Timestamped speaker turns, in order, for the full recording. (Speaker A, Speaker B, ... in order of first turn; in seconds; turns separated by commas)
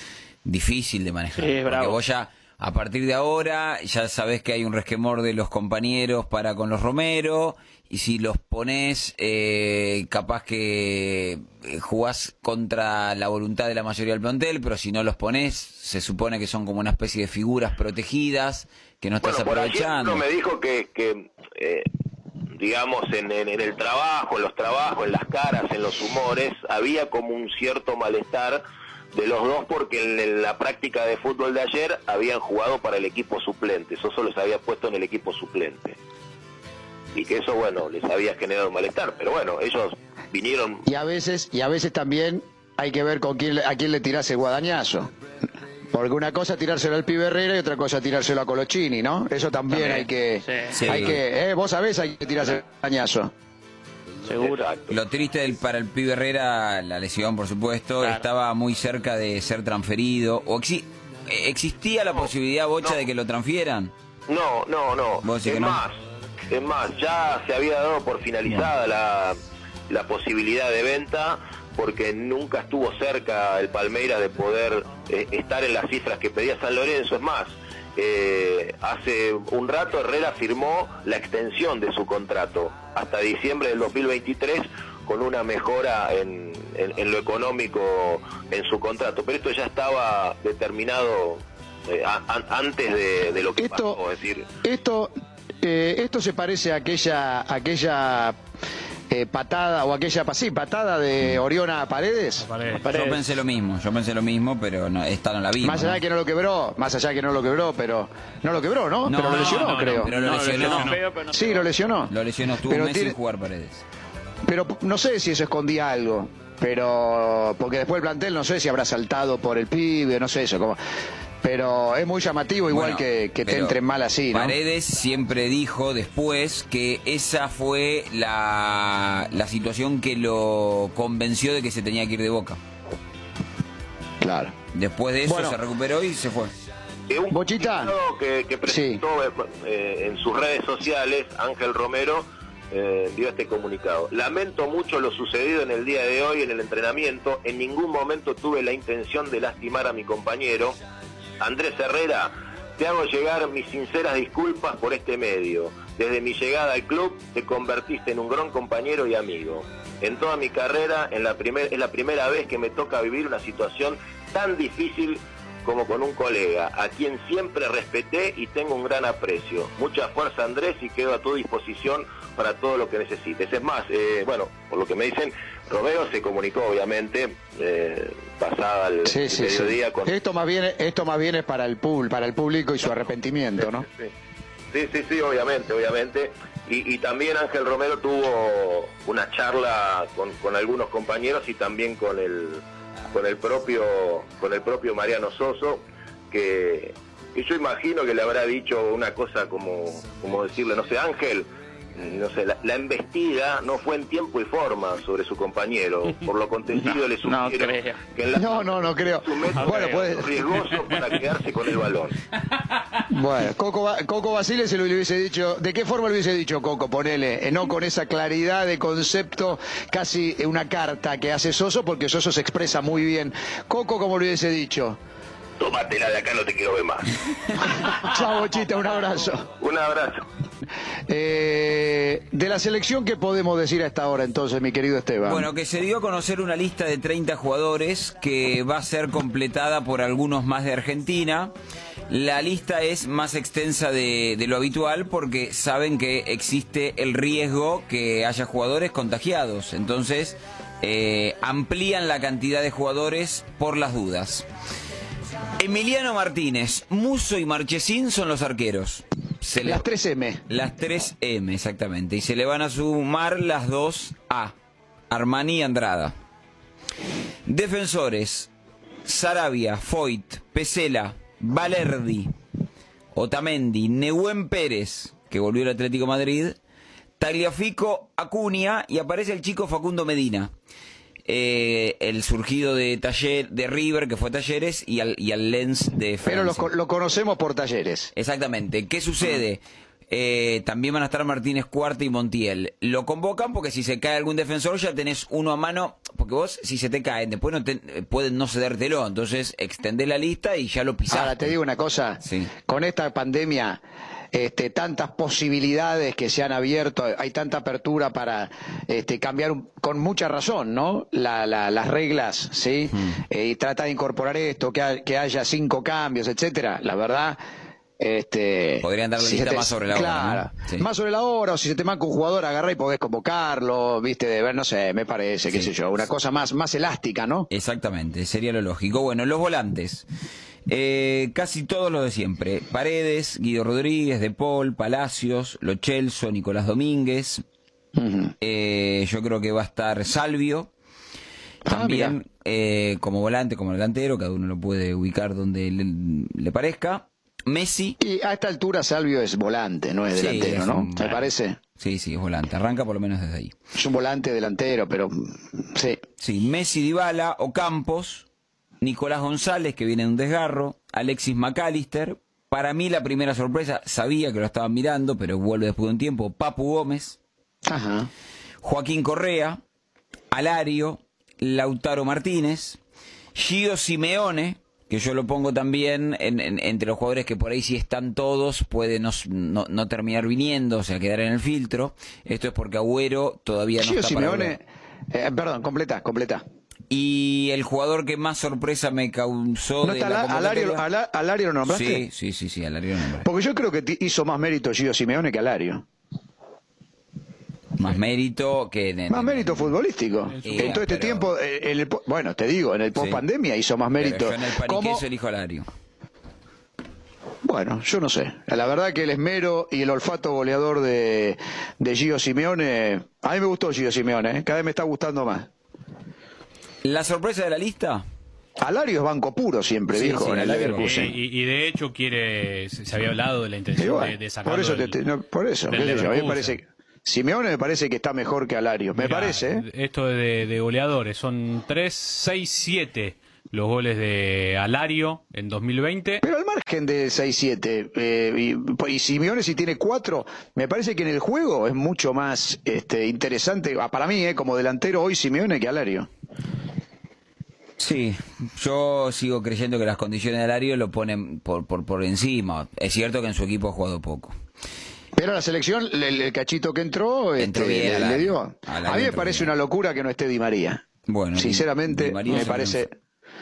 Speaker A: 0.4-20.2, Speaker B: 1.4-2.0, Speaker C: 19.2-21.9, Speaker C: 22.5-28.6, Speaker C: 29.1-36.0, Speaker C: 37.1-40.9, Speaker D: 40.9-45.1, Speaker D: 45.9-53.3, Speaker B: 49.7-50.8, Speaker A: 50.7-51.2, Speaker B: 54.2-54.6, Speaker C: 54.4-55.0, Speaker A: 54.9-63.9, Speaker C: 64.3-69.4, Speaker A: 65.2-65.8, Speaker C: 69.9-94.5, Speaker D: 93.6-94.0, Speaker D: 94.6-98.4, Speaker D: 99.1-102.5, Speaker E: 102.4-103.2, Speaker A: 102.8-106.0, Speaker D: 105.6-110.1, Speaker A: 109.0-110.9, Speaker E: 109.2-111.0, Speaker B: 110.1-111.9, Speaker D: 111.3-112.1, Speaker A: 112.1-113.8, Speaker D: 112.7-113.2, Speaker D: 114.5-120.8, Speaker D: 121.4-124.5, Speaker A: 122.7-123.8, Speaker A: 124.3-132.6, Speaker D: 134.2-134.5, Speaker A: 134.7-136.5, Speaker D: 135.2-135.6, Speaker C: 137.1-150.8, Speaker D: 137.3-137.9, Speaker D: 138.7-139.0, Speaker C: 151.4-180.1, Speaker D: 179.1-183.8, Speaker C: 183.6-184.1, Speaker C: 184.7-212.2, Speaker B: 206.8-208.0, Speaker D: 208.3-210.3, Speaker B: 209.6-210.2, Speaker E: 210.6-211.2, Speaker D: 213.1-225.0, Speaker C: 225.6-227.1, Speaker D: 228.0-229.5, Speaker C: 229.6-230.2, Speaker D: 231.1-235.4, Speaker A: 235.2-241.5, Speaker A: 242.1-254.4, Speaker A: 255.6-259.9, Speaker D: 259.6-260.4, Speaker A: 260.5-264.5, Speaker A: 265.1-266.1, Speaker A: 267.5-268.5, Speaker A: 269.0-272.3, Speaker A: 273.1-276.6, Speaker A: 277.2-280.5, Speaker A: 281.2-286.7, Speaker D: 286.2-288.1, Speaker A: 288.1-301.5, Speaker D: 301.1-303.8, Speaker A: 302.2-302.5, Speaker D: 304.3-317.4, Speaker D: 318.0-327.5, Speaker A: 318.8-320.9, Speaker A: 325.5-326.0, Speaker A: 327.5-330.1, Speaker A: 330.7-337.4, Speaker D: 337.9-338.3, Speaker A: 338.4-340.7, Speaker D: 341.6-342.2, Speaker A: 341.7-348.0, Speaker D: 348.0-351.6, Speaker A: 350.1-351.3, Speaker A: 351.8-353.5, Speaker D: 353.8-356.0, Speaker A: 356.2-358.2, Speaker A: 358.8-367.2, Speaker D: 367.7-368.1, Speaker A: 368.6-369.6, Speaker A: 370.3-372.8, Speaker A: 373.3-384.5, Speaker D: 383.8-386.4, Speaker A: 386.9-390.8, Speaker D: 389.8-392.1, Speaker A: 391.6-393.3, Speaker D: 393.2-395.8, Speaker A: 397.8-399.8, Speaker D: 399.1-405.0, Speaker E: 400.3-400.8, Speaker A: 400.4-401.3, Speaker A: 404.0-405.7, Speaker D: 407.4-415.5, Speaker A: 416.8-418.0, Speaker D: 418.6-421.1, Speaker A: 419.9-420.9, Speaker E: 420.8-425.0, Speaker D: 423.7-429.6, Speaker E: 425.7-426.6, Speaker E: 428.9-436.2, Speaker D: 436.2-446.1, Speaker A: 447.8-454.3, Speaker D: 455.1-460.8, Speaker A: 457.4-459.5, Speaker A: 461.1-462.9, Speaker D: 461.4-462.9